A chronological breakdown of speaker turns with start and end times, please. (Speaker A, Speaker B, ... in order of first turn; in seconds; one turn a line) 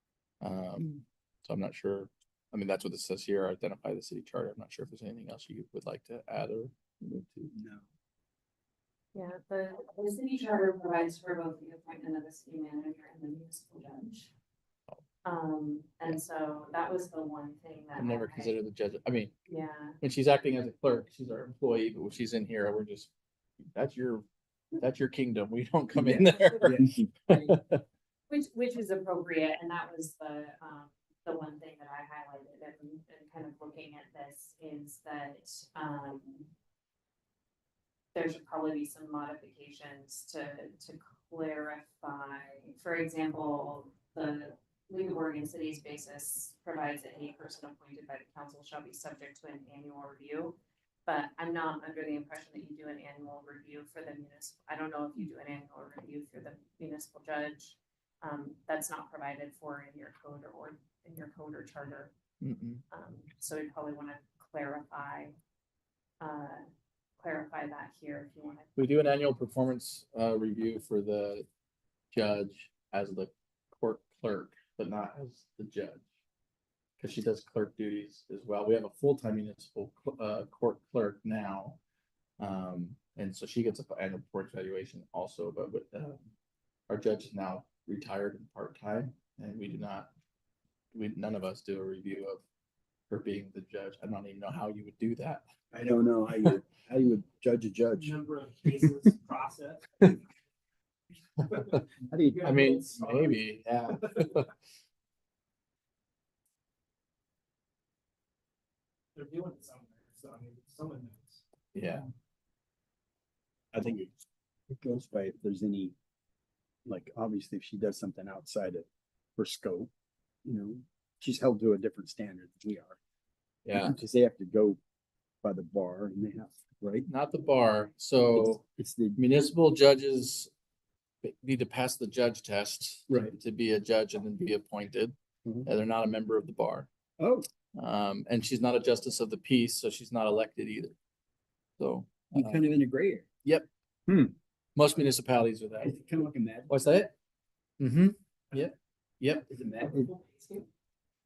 Speaker A: 0.4-7.5
Speaker B: 7.5-7.8
Speaker C: 9.1-14.3
Speaker C: 15.2-18.5
Speaker A: 18.0-19.3
Speaker C: 19.5-20.0
Speaker A: 20.0-23.1
Speaker A: 23.7-24.2
Speaker A: 24.8-27.8
Speaker B: 25.9-27.0
Speaker C: 28.3-36.5
Speaker C: 38.1-50.5
Speaker C: 51.0-62.1
Speaker A: 62.4-62.8
Speaker C: 62.9-65.3
Speaker C: 66.2-66.6
Speaker C: 67.2-68.7
Speaker A: 68.8-71.5
Speaker A: 72.1-76.0
Speaker A: 77.0-81.8
Speaker A: 82.4-86.2
Speaker A: 86.9-90.1
Speaker A: 90.9-92.4
Speaker A: 93.1-95.4
Speaker B: 95.7-98.2
Speaker D: 98.0-100.2
Speaker D: 101.5-104.3
Speaker B: 102.1-102.4
Speaker A: 102.4-104.5
Speaker D: 109.1-111.4
Speaker A: 111.7-112.0
Speaker B: 113.7-114.1
Speaker B: 114.7-115.9
Speaker B: 116.8-119.9
Speaker B: 120.4-123.0
Speaker A: 123.7-124.0
Speaker B: 123.7-124.8
Speaker B: 125.4-127.1
Speaker A: 127.1-128.6
Speaker B: 128.3-129.2
Speaker A: 129.2-130.5
Speaker A: 131.2-135.1
Speaker B: 133.1-133.3
Speaker A: 135.7-136.9
Speaker B: 137.2-137.5
Speaker A: 137.8-140.9
Speaker A: 141.8-142.7
Speaker B: 142.3-143.2
Speaker A: 144.8-145.9
Speaker B: 145.8-146.7
Speaker A: 146.7-147.1
Speaker A: 147.8-149.5
Speaker B: 149.5-150.1
Speaker D: 149.7-150.7